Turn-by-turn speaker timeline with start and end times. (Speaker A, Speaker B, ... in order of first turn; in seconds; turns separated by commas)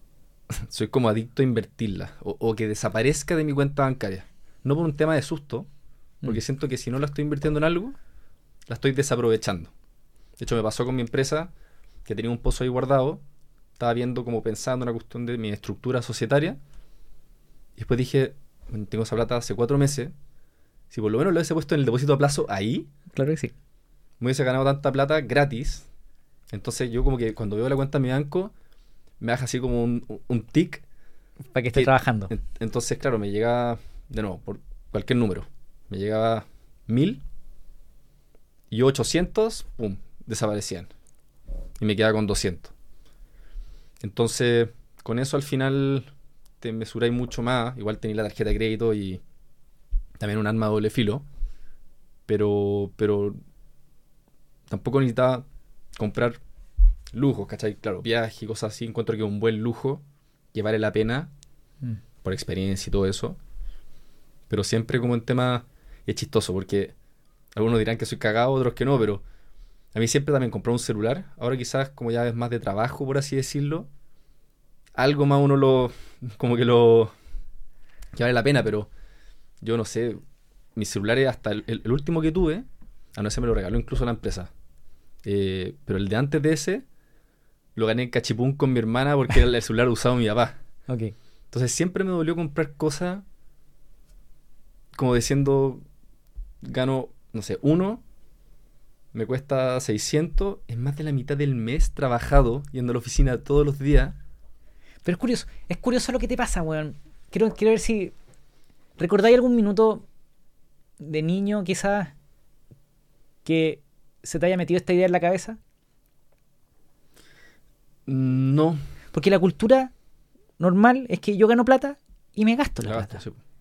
Speaker A: 0.5-5.7, Speaker A: 6.2-8.0, Speaker A: 8.7-9.7, Speaker A: 10.4-11.5, Speaker A: 12.1-13.2, Speaker A: 13.8-16.6, Speaker A: 17.8-20.1, Speaker A: 20.9-22.9, Speaker B: 23.1-23.5, Speaker A: 24.2-25.9, Speaker A: 26.5-28.5, Speaker A: 29.2-30.8, Speaker B: 31.5-32.3, Speaker A: 31.7-37.2, Speaker A: 38.7-40.9, Speaker A: 41.8-42.7, Speaker A: 44.0-46.1, Speaker A: 46.6-49.2, Speaker A: 50.2-51.2, Speaker A: 52.3-53.4, Speaker A: 54.7-55.5, Speaker A: 56.0-56.4, Speaker A: 57.1-60.0, Speaker A: 60.5-61.3, Speaker A: 62.2-63.4, Speaker A: 64.5-66.9, Speaker A: 67.5-69.2, Speaker A: 69.9-73.9, Speaker A: 75.0-77.1, Speaker A: 78.1-78.9, Speaker A: 79.6-80.2, Speaker A: 80.8-82.7, Speaker A: 83.2-84.5, Speaker A: 85.2-86.8, Speaker A: 87.8-90.6, Speaker B: 90.9-91.1, Speaker A: 91.5-93.2, Speaker A: 95.0-95.8, Speaker A: 96.6-98.0, Speaker A: 99.1-104.2, Speaker B: 105.0-108.1, Speaker B: 109.0-110.0, Speaker B: 111.0-112.1, Speaker B: 113.5-115.6, Speaker A: 118.1-118.8, Speaker B: 119.1-119.9, Speaker B: 120.6-123.2, Speaker A: 122.8-123.4